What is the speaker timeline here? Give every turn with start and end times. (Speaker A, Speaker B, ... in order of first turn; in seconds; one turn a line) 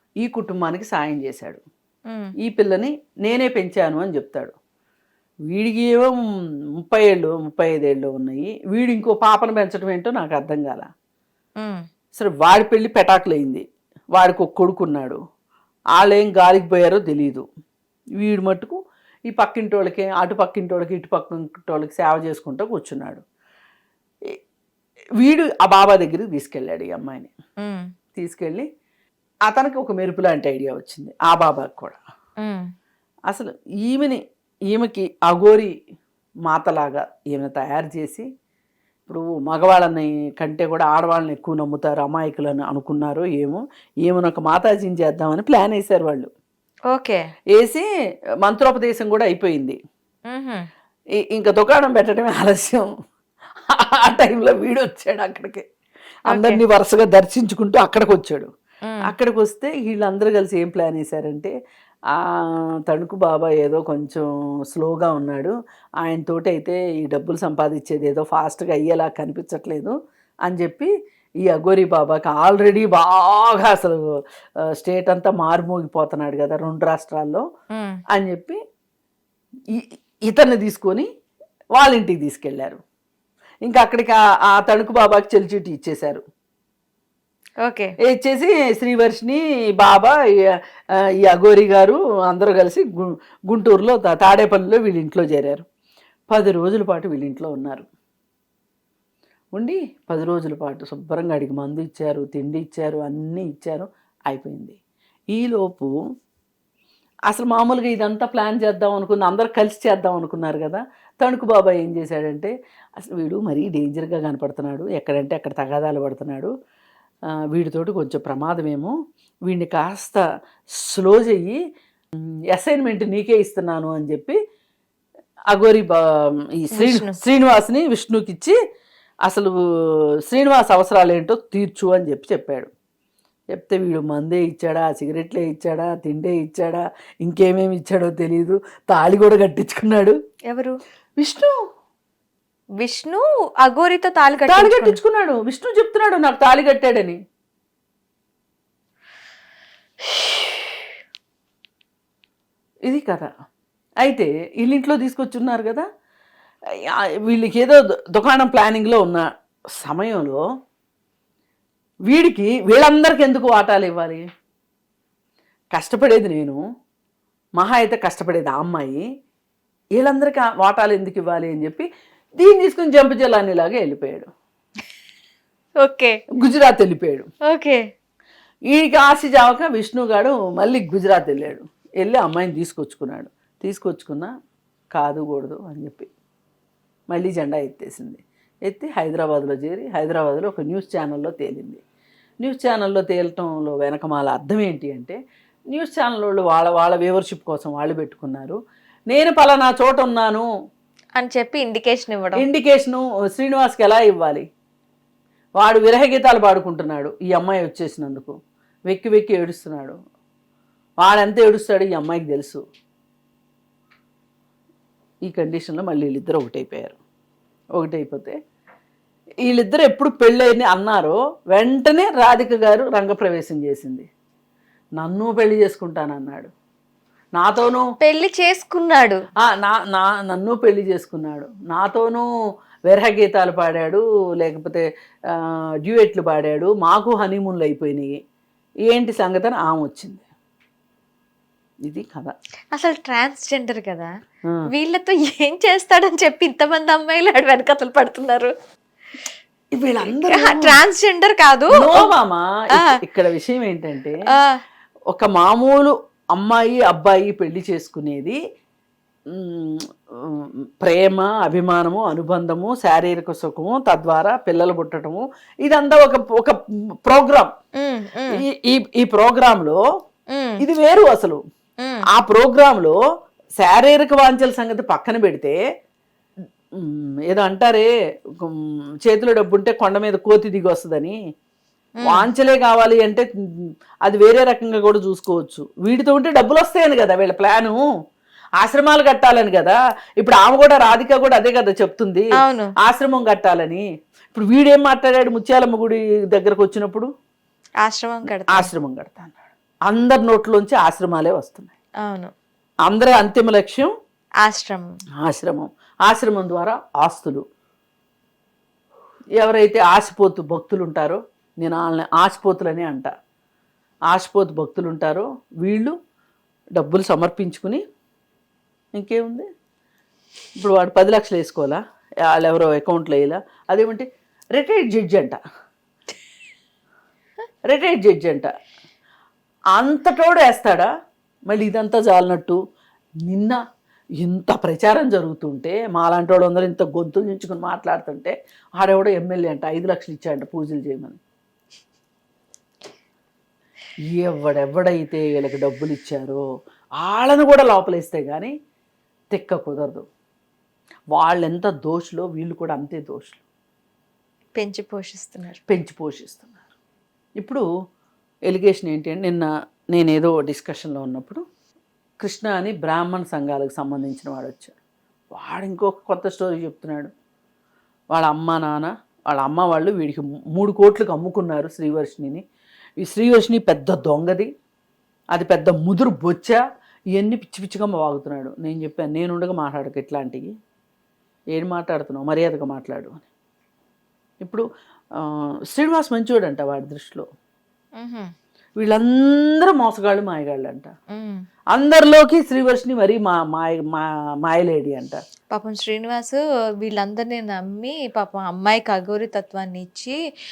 Speaker A: 0.2-1.6
Speaker B: 2.1-2.3
Speaker A: 2.4-4.5
Speaker A: 5.5-6.2
Speaker A: 6.8-10.9
Speaker B: 11.6-11.8
Speaker A: 12.1-15.2
Speaker A: 15.9-17.4
Speaker A: 18.2-18.8
Speaker A: 19.3-23.2
Speaker A: 25.2-27.3
Speaker B: 27.6-27.9
Speaker A: 28.1-28.6
Speaker A: 29.5-32.0
Speaker B: 32.4-32.7
Speaker A: 33.3-35.7
Speaker A: 36.5-38.3
Speaker A: 39.1-46.3
Speaker B: 46.9-47.2
Speaker A: 47.5-47.8
Speaker A: 48.4-49.8
Speaker B: 50.3-50.7
Speaker A: 51.2-52.8
Speaker A: 53.7-55.6
Speaker A: 56.3-58.5
Speaker B: 56.3-56.6
Speaker A: 59.0-61.5
Speaker A: 62.1-69.9
Speaker A: 70.5-70.9
Speaker A: 71.4-74.0
Speaker A: 74.7-77.4
Speaker B: 77.7-78.0
Speaker A: 78.1-78.6
Speaker A: 79.7-81.1
Speaker A: 81.7-82.8
Speaker A: 83.6-86.2
Speaker B: 87.6-87.9
Speaker A: 88.1-90.2
Speaker A: 91.2-95.6
Speaker A: 96.3-97.8
Speaker A: 99.5-104.8
Speaker A: 105.3-105.9
Speaker A: 107.3-116.5
Speaker A: 117.5-118.9
Speaker A: 119.5-120.2
Speaker A: 120.8-121.6
Speaker A: 122.5-124.4
Speaker A: 125.5-126.0
Speaker A: 126.6-128.6
Speaker B: 126.7-127.2
Speaker A: 129.2-132.7
Speaker A: 133.5-140.2
Speaker B: 140.5-140.8
Speaker A: 141.2-141.5
Speaker B: 142.8-145.0
Speaker A: 144.5-147.2
Speaker A: 152.9-153.3
Speaker A: 154.0-155.8
Speaker A: 157.2-160.4
Speaker A: 162.1-164.2
Speaker A: 165.7-166.6
Speaker A: 167.6-169.0
Speaker A: 170.0-171.9
Speaker A: 172.4-174.3
Speaker B: 175.8-176.2
Speaker A: 176.4-177.3
Speaker B: 177.5-177.8
Speaker A: 178.7-184.3
Speaker A: 184.9-186.1
Speaker A: 187.1-191.8
Speaker A: 192.4-195.2
Speaker A: 195.7-198.6
Speaker A: 199.1-200.5
Speaker B: 201.2-202.4
Speaker A: 202.4-204.4
Speaker A: 205.6-208.4
Speaker A: 208.9-210.0
Speaker A: 211.0-212.6
Speaker A: 215.2-217.0
Speaker A: 217.8-218.3
Speaker A: 219.4-224.1
Speaker A: 225.0-226.5
Speaker A: 227.3-227.8
Speaker B: 228.0-229.2
Speaker A: 229.4-232.2
Speaker A: 232.9-238.2
Speaker A: 238.9-240.2
Speaker A: 241.8-242.3
Speaker B: 242.7-244.1
Speaker B: 244.7-248.5
Speaker A: 249.7-250.8
Speaker B: 250.1-252.1
Speaker A: 251.7-254.2
Speaker B: 254.3-254.6
Speaker A: 255.1-258.4
Speaker A: 259.3-267.5
Speaker B: 267.8-268.4
Speaker A: 268.4-269.8
Speaker B: 270.3-270.6
Speaker A: 270.6-271.4
Speaker A: 272.1-272.9
Speaker A: 273.6-275.6
Speaker A: 276.8-277.9
Speaker A: 278.4-281.2
Speaker B: 282.0-282.3
Speaker A: 282.0-283.3
Speaker A: 284.0-287.8
Speaker A: 288.6-292.3
Speaker B: 292.4-292.7
Speaker A: 292.8-297.1
Speaker B: 297.8-298.7
Speaker A: 298.5-299.4
Speaker A: 299.9-301.7
Speaker B: 302.0-302.3
Speaker A: 302.9-303.9
Speaker B: 304.4-305.0
Speaker A: 305.2-307.4
Speaker A: 309.4-313.1
Speaker A: 314.1-315.9
Speaker A: 316.8-317.8
Speaker A: 319.0-319.5
Speaker A: 320.6-325.4
Speaker A: 327.7-328.5
Speaker A: 329.8-330.9
Speaker A: 331.5-332.6
Speaker A: 333.2-333.6
Speaker A: 334.2-341.2
Speaker A: 344.1-346.4
Speaker A: 347.0-348.5
Speaker A: 349.3-350.1
Speaker A: 351.1-353.4
Speaker B: 354.6-355.6
Speaker A: 355.7-356.6
Speaker A: 357.4-357.6
Speaker A: 358.5-361.4
Speaker A: 362.2-364.7
Speaker A: 365.3-367.1
Speaker A: 368.1-372.4
Speaker A: 373.0-374.5
Speaker A: 375.3-376.6
Speaker A: 377.1-380.5
Speaker A: 381.5-383.2
Speaker A: 385.2-387.2
Speaker B: 388.0-388.3
Speaker A: 388.8-390.9
Speaker B: 391.1-391.4
Speaker A: 391.7-395.2
Speaker B: 395.5-400.1